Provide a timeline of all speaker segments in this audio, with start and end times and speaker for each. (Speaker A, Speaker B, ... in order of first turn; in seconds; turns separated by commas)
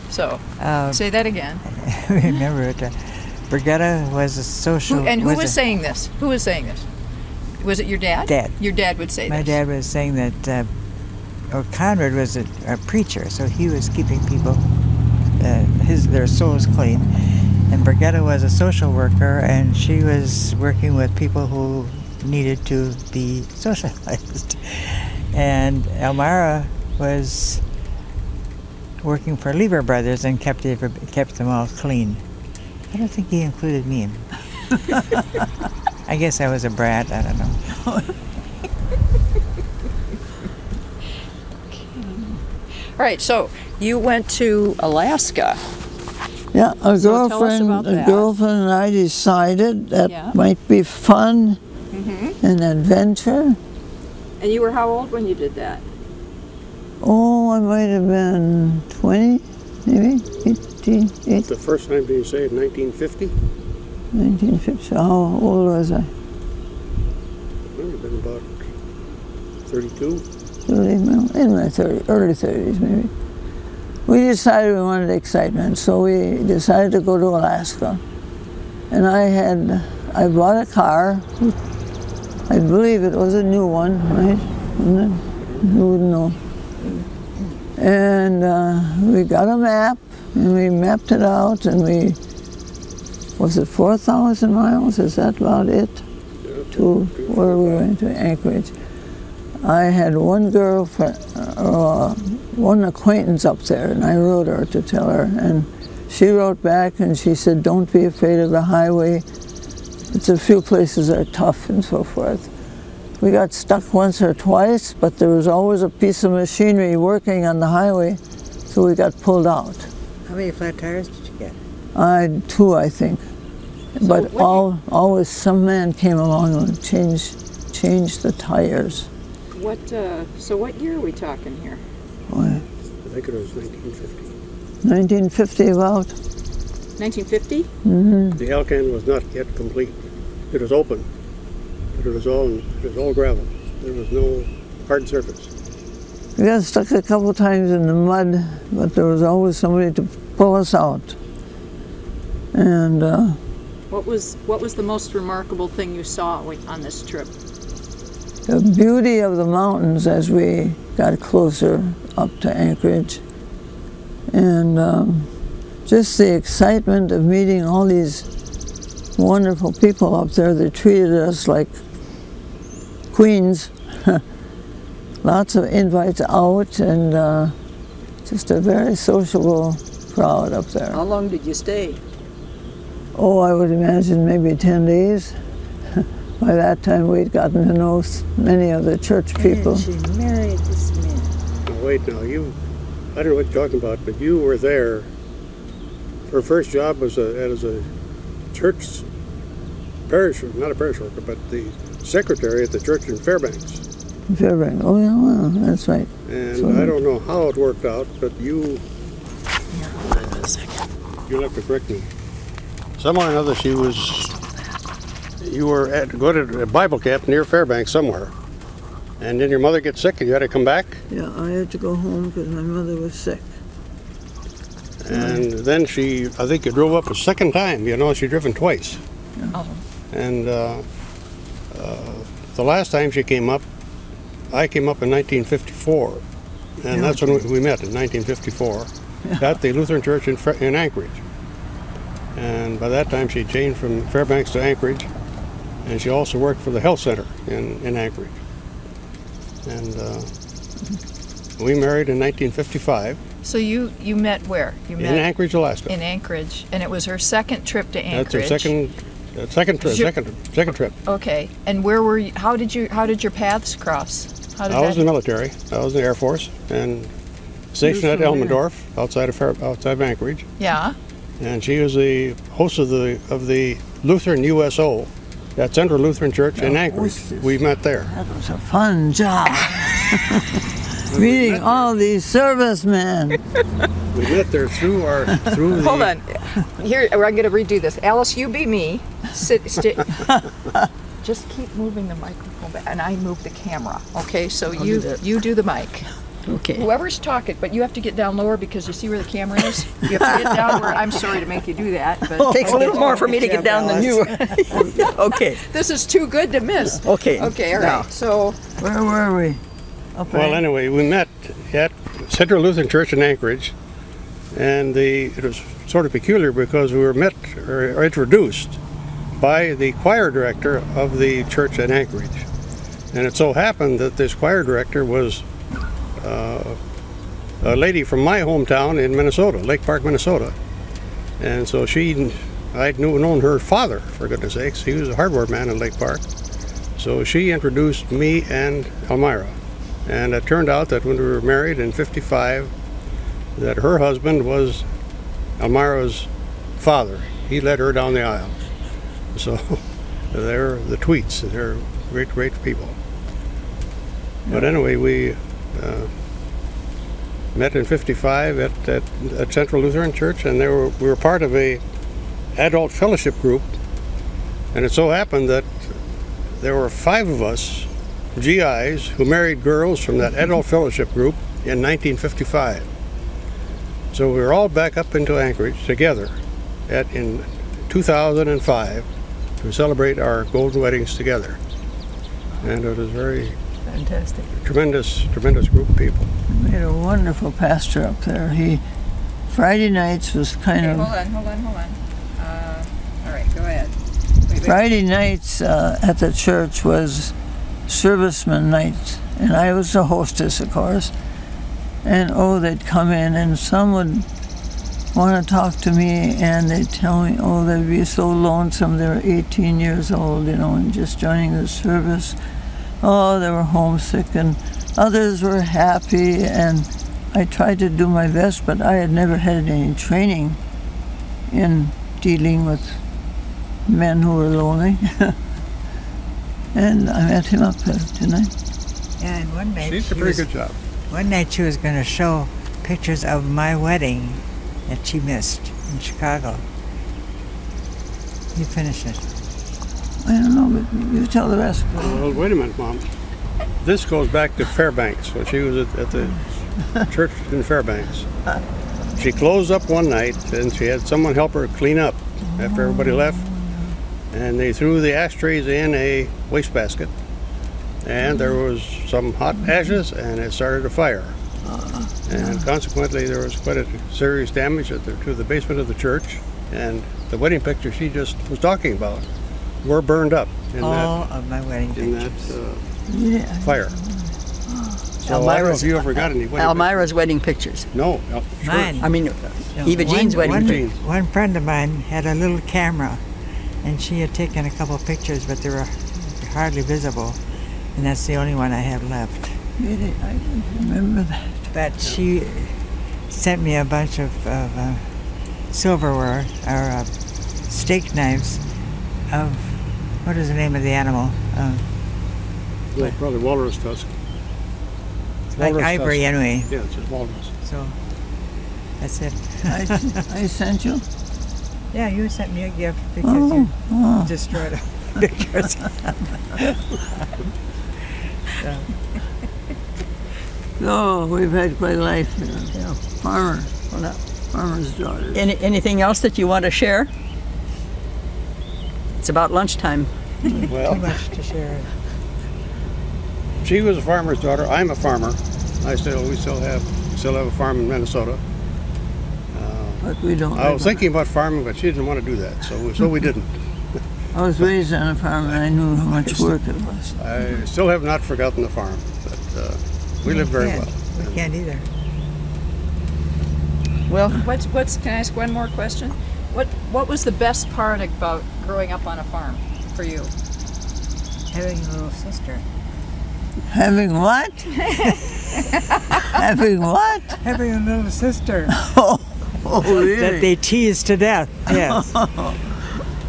Speaker A: 0.1-1.6, Speaker B: 0.6-1.0, Speaker B: 1.6-5.6, Speaker A: 4.9-6.9, Speaker A: 7.6-9.6, Speaker B: 8.3-8.5, Speaker B: 9.3-10.7, Speaker B: 11.5-14.7, Speaker B: 15.4-27.6, Speaker B: 29.0-32.2, Speaker B: 32.9-35.2, Speaker B: 36.0-37.7, Speaker A: 41.7-45.6, Speaker C: 46.5-51.6, Speaker A: 47.0-48.3, Speaker A: 50.1-50.4, Speaker A: 51.9-52.4, Speaker C: 52.4-53.6, Speaker A: 54.4-55.8, Speaker C: 57.0-61.5, Speaker D: 61.4-63.3, Speaker C: 64.1-66.1, Speaker D: 67.7-68.6, Speaker D: 69.6-70.2, Speaker C: 70.7-73.1, Speaker C: 74.0-78.0, Speaker C: 78.9-81.5, Speaker C: 82.5-86.4, Speaker C: 87.8-92.2, Speaker C: 93.4-96.0, Speaker D: 96.4-97.8, Speaker C: 96.7-98.7, Speaker C: 99.6-109.2, Speaker C: 110.1-112.5, Speaker C: 113.2-119.9, Speaker B: 120.3-121.6, Speaker C: 121.9-123.2, Speaker C: 124.0-129.1, Speaker A: 124.0-124.7, Speaker A: 129.5-131.8, Speaker C: 132.3-132.6, Speaker D: 133.0-134.3, Speaker C: 134.8-136.1, Speaker A: 137.0-137.7, Speaker C: 137.8-138.4, Speaker D: 138.3-141.1, Speaker D: 141.9-145.5, Speaker C: 146.4-151.2, Speaker C: 152.5-153.4, Speaker A: 153.9-157.3, Speaker C: 158.4-163.2, Speaker C: 164.3-165.3, Speaker C: 165.8-168.3, Speaker C: 169.2-171.7, Speaker C: 173.1-174.2, Speaker C: 175.2-177.5, Speaker C: 178.2-181.0, Speaker E: 180.9-182.0, Speaker C: 183.1-185.3, Speaker C: 186.0-189.8, Speaker B: 189.4-191.3, Speaker D: 191.7-192.5, Speaker D: 193.1-195.1, Speaker D: 196.3-197.9, Speaker D: 198.5-199.0, Speaker D: 200.1-203.8, Speaker C: 204.3-206.9, Speaker D: 206.3-208.8, Speaker A: 209.7-210.8, Speaker D: 211.3-212.1, Speaker D: 213.0-214.4, Speaker D: 215.4-218.3, Speaker D: 219.2-221.0, Speaker C: 221.1-223.5, Speaker D: 225.0-229.0, Speaker C: 225.1-225.4, Speaker A: 229.5-229.8, Speaker D: 230.1-230.8, Speaker D: 231.7-233.6, Speaker D: 234.5-236.2, Speaker D: 236.8-241.2, Speaker C: 236.9-237.4, Speaker D: 242.3-245.1, Speaker D: 245.8-248.3, Speaker D: 249.6-250.3, Speaker D: 251.6-253.2, Speaker A: 253.4-255.3, Speaker D: 255.0-255.9, Speaker A: 255.9-258.7, Speaker D: 258.1-260.9, Speaker A: 259.8-260.1, Speaker A: 261.1-265.0, Speaker D: 264.7-267.1, Speaker D: 267.7-270.5, Speaker C: 267.8-268.6, Speaker A: 270.6-270.9, Speaker D: 271.4-278.1, Speaker C: 276.6-283.4, Speaker D: 281.1-281.9, Speaker D: 284.1-286.1, Speaker A: 285.8-290.4, Speaker A: 291.2-296.1, Speaker E: 294.8-295.2, Speaker E: 296.5-296.9, Speaker A: 296.7-303.4, Speaker E: 302.4-305.6, Speaker B: 302.6-304.9, Speaker A: 304.8-308.6, Speaker E: 307.0-308.1, Speaker C: 308.8-309.6, Speaker C: 310.1-310.6, Speaker D: 310.3-313.7, Speaker D: 314.5-318.8, Speaker D: 319.4-322.4, Speaker D: 323.1-325.4, Speaker D: 326.2-326.8, Speaker D: 327.6-330.5, Speaker D: 331.4-336.2, Speaker D: 337.0-342.7, Speaker D: 343.6-344.8, Speaker D: 345.6-348.7, Speaker D: 349.3-352.9, Speaker D: 354.5-356.1, Speaker D: 357.5-361.8, Speaker D: 362.5-363.7, Speaker D: 364.7-365.9, Speaker D: 366.6-372.9, Speaker D: 374.1-376.3, Speaker D: 376.9-379.1, Speaker D: 379.6-381.6, Speaker D: 382.6-383.6, Speaker E: 383.9-384.5, Speaker D: 384.6-386.3, Speaker C: 386.5-388.8, Speaker C: 389.5-391.1, Speaker A: 390.8-393.9, Speaker A: 394.5-394.8, Speaker C: 394.6-397.3, Speaker C: 397.9-401.1, Speaker C: 402.0-404.3, Speaker C: 405.1-412.4, Speaker C: 413.0-420.6, Speaker C: 421.5-423.0, Speaker C: 423.9-425.4, Speaker C: 426.7-428.5, Speaker B: 429.2-430.4, Speaker D: 429.8-430.8, Speaker B: 431.1-436.6, Speaker B: 438.5-439.2, Speaker C: 440.2-442.3, Speaker D: 442.0-443.0, Speaker D: 443.8-446.4, Speaker D: 447.0-448.3, Speaker D: 449.1-453.5, Speaker D: 454.3-457.1, Speaker D: 458.0-461.4, Speaker C: 461.6-462.5, Speaker D: 462.2-469.2, Speaker D: 469.8-471.1, Speaker B: 470.8-472.6, Speaker D: 471.9-472.8, Speaker C: 473.1-475.0, Speaker D: 473.6-473.9, Speaker D: 475.2-477.1, Speaker B: 475.3-476.2, Speaker E: 476.6-477.9, Speaker D: 477.9-479.1, Speaker B: 478.6-479.1, Speaker E: 479.0-480.8, Speaker B: 479.7-483.2, Speaker D: 479.8-481.0, Speaker B: 483.8-487.4, Speaker B: 487.9-489.6, Speaker C: 489.8-491.7, Speaker B: 491.7-495.1, Speaker B: 495.7-497.1, Speaker B: 497.7-498.6, Speaker B: 499.3-501.9, Speaker D: 502.9-504.1, Speaker D: 505.5-507.5, Speaker B: 505.6-506.7, Speaker B: 507.6-508.0, Speaker B: 509.0-510.2, Speaker C: 509.7-511.0, Speaker B: 511.9-516.7, Speaker C: 513.2-514.3, Speaker B: 518.5-518.9, Speaker C: 520.8-523.7, Speaker E: 523.9-524.2, Speaker C: 524.5-525.5, Speaker E: 525.3-527.1, Speaker E: 529.2-530.1, Speaker B: 530.7-531.9, Speaker D: 530.7-531.1, Speaker D: 533.6-538.4, Speaker D: 539.5-543.5, Speaker C: 540.0-541.0, Speaker C: 544.3-547.2, Speaker D: 547.2-551.4, Speaker B: 550.2-551.9, Speaker E: 554.1-554.4, Speaker A: 554.3-560.3, Speaker B: 561.5-562.6, Speaker C: 563.7-564.9, Speaker A: 564.9-566.4, Speaker C: 566.3-567.4, Speaker B: 567.4-568.8, Speaker C: 568.8-570.5, Speaker B: 569.8-572.1, Speaker C: 571.7-572.8